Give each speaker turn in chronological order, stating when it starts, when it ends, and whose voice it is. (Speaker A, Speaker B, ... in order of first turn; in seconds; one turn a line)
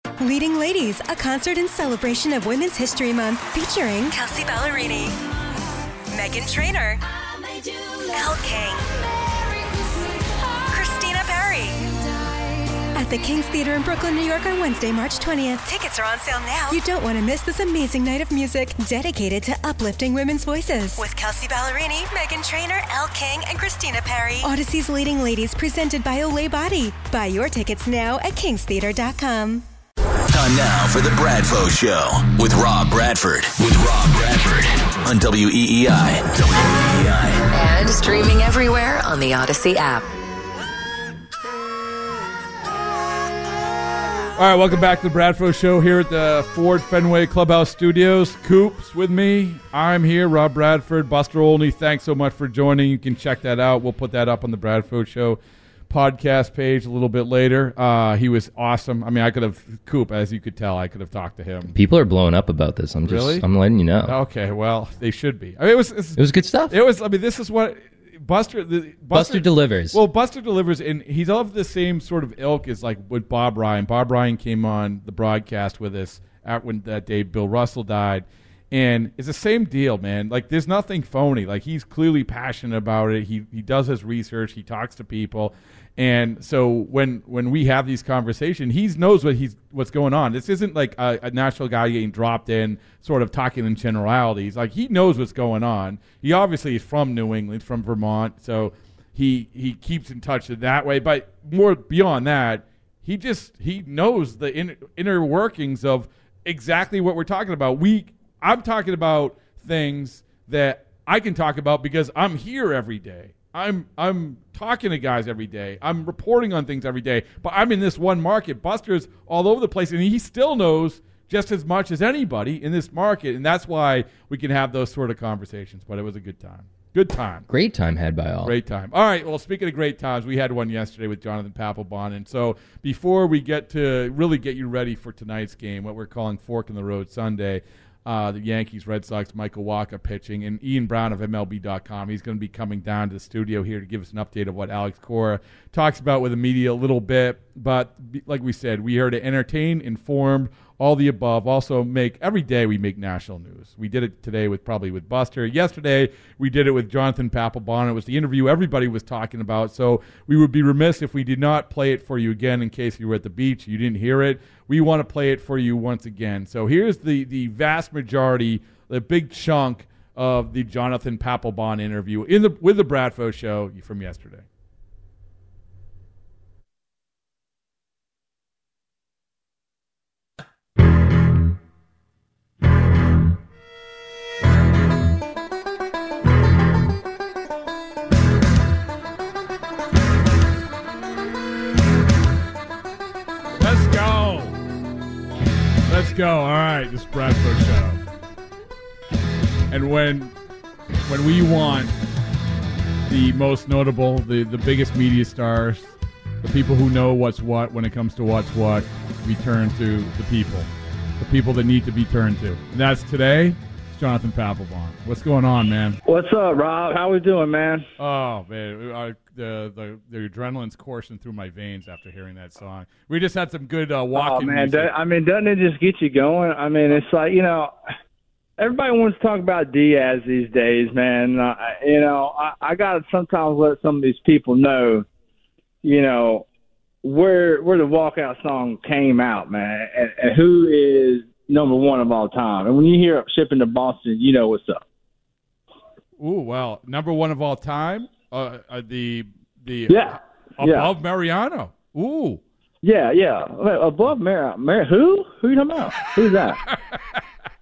Speaker A: 0.2-5.2
Speaker A: 6.1-7.0
Speaker B: 7.0-11.1
Speaker A: 8.1-8.8
Speaker A: 10.7-11.8
Speaker B: 11.8-13.1
Speaker A: 12.9-29.6
Speaker C: 30.3-37.5
Speaker B: 37.5-40.1
Speaker D: 44.4-61.7
Speaker E: 61.7-64.2
Speaker D: 63.0-63.4
Speaker D: 64.0-127.5
Speaker E: 66.2-66.7
Speaker E: 69.1-70.0
Speaker E: 127.5-128.5
Speaker D: 128.4-174.4
Speaker D: 193.6-194.5
Speaker D: 195.9-198.0
Speaker D: 199.7-200.3
Speaker D: 201.1-201.9
Speaker D: 203.1-210.7
Speaker D: 211.2-216.0
Speaker F: 216.1-217.8
Speaker D: 218.0-224.9
Speaker F: 224.1-227.7
Speaker F: 228.6-235.1
Speaker F: 235.8-236.4
Speaker F: 237.0-244.8
Speaker D: 246.2-252.4
Speaker F: 249.9-250.9
Speaker F: 252.8-256.6
Speaker D: 256.2-257.2